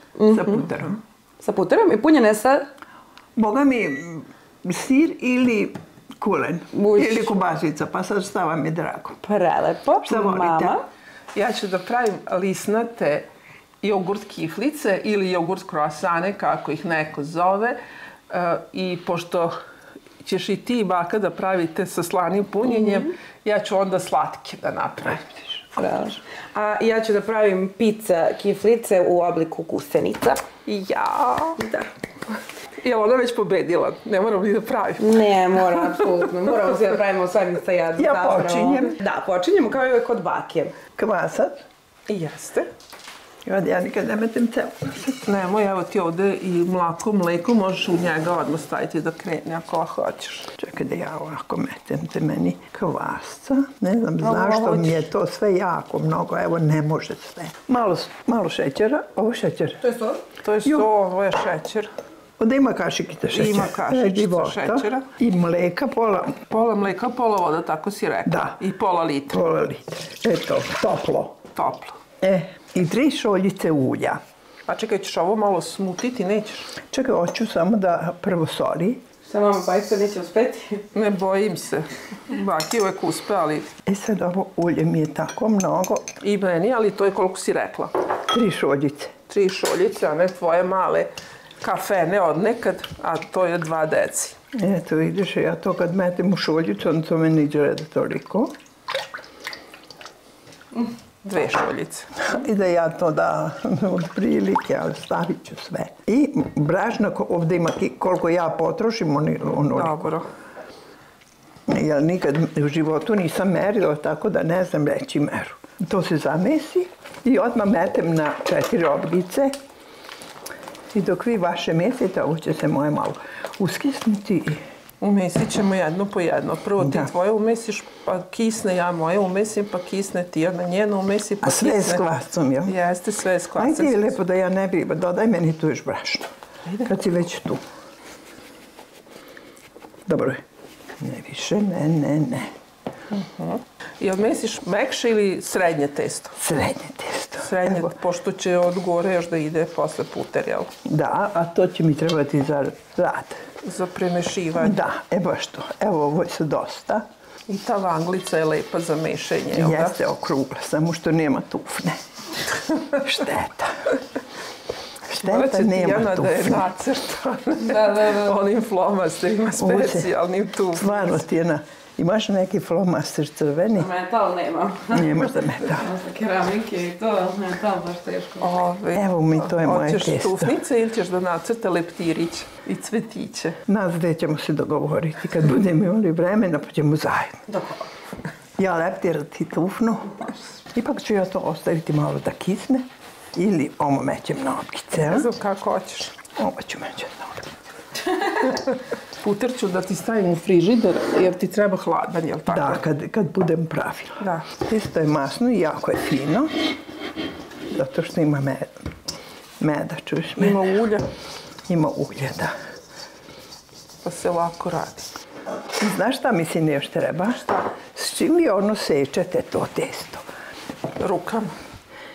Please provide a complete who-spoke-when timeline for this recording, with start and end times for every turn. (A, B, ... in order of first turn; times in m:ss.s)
0:00.2-0:00.7 A
0:00.3-0:01.0 B
0:01.4-0:02.7 A
0:03.4-0:09.2 B
0:06.7-0:07.3 A
0:09.2-0:10.8 A
0:10.0-0:10.8 B
0:11.4-0:13.3 C
0:13.8-0:17.8 C
0:18.3-0:19.6 C
0:20.2-0:25.3 C
0:22.6-0:23.1 A
0:25.8-0:30.4 A
0:30.6-0:31.6 C
0:31.6-0:31.9 A
0:32.8-0:36.0 C
0:35.0-0:40.8 A
0:38.0-0:39.0 B
0:41.0-0:41.6 B
0:42.1-0:42.7 C
0:43.4-0:45.2 B
0:45.2-0:50.5 C
0:50.6-0:59.8 B
0:54.2-0:55.1 C
0:59.8-1:00.2 A
1:00.4-1:01.9 C
1:02.4-1:06.4 B
1:03.3-1:05.1 C
1:06.5-1:09.4 C
1:08.3-1:08.6 B
1:09.3-1:11.4 B
1:11.6-1:12.0 C
1:12.2-1:14.2 B
1:14.7-1:16.7 C
1:16.8-1:19.0 B
1:19.2-1:20.8 A
1:20.9-1:23.8 C
1:23.9-1:26.1 B
1:26.2-1:27.9 C
1:28.3-1:29.1 B
1:29.3-1:31.1 C
1:31.6-1:34.4 C
1:34.5-1:38.5 B
1:41.2-1:42.2 C
1:42.2-1:50.1 B
1:49.7-1:50.3 C
1:51.7-1:59.6 B
2:00.9-2:04.6 B
2:05.0-2:12.0 C
2:06.8-2:07.1 B
2:11.4-2:12.7 B
2:12.7-2:14.2 C
2:13.6-2:16.3 B
2:16.7-2:16.9 C
2:16.8-2:17.6 B
2:20.1-2:20.4 B
2:21.0-2:22.5 B
2:23.1-2:26.4 C
2:26.4-2:27.9 B
2:27.4-2:30.7 C
2:30.8-2:33.4 B
2:33.6-2:34.8 C
2:34.6-2:37.1 B
2:37.5-2:40.0 C
2:39.5-2:42.0 B
2:42.9-2:43.9 B
2:45.1-2:46.7 B
2:45.2-2:51.2 C
2:47.6-2:48.4 A
2:49.6-2:50.1 B
2:50.7-2:53.9 B
2:53.8-2:58.6 A
2:54.9-2:55.9 B
2:58.4-3:03.6 C
2:58.9-3:00.6 B
3:03.7-3:07.4 B
3:07.5-3:07.8 A
3:08.6-3:15.3 B
3:15.0-3:16.1 C
3:16.4-3:17.5 B
3:18.4-3:22.8 C
3:22.5-3:26.5 B
3:24.2-3:24.5 C
3:27.7-3:28.7 B
3:29.6-3:30.6 B
3:30.4-3:31.1 C
3:31.7-3:32.5 B
3:34.0-3:35.1 C
3:35.8-3:40.3 B
3:41.0-3:41.5 C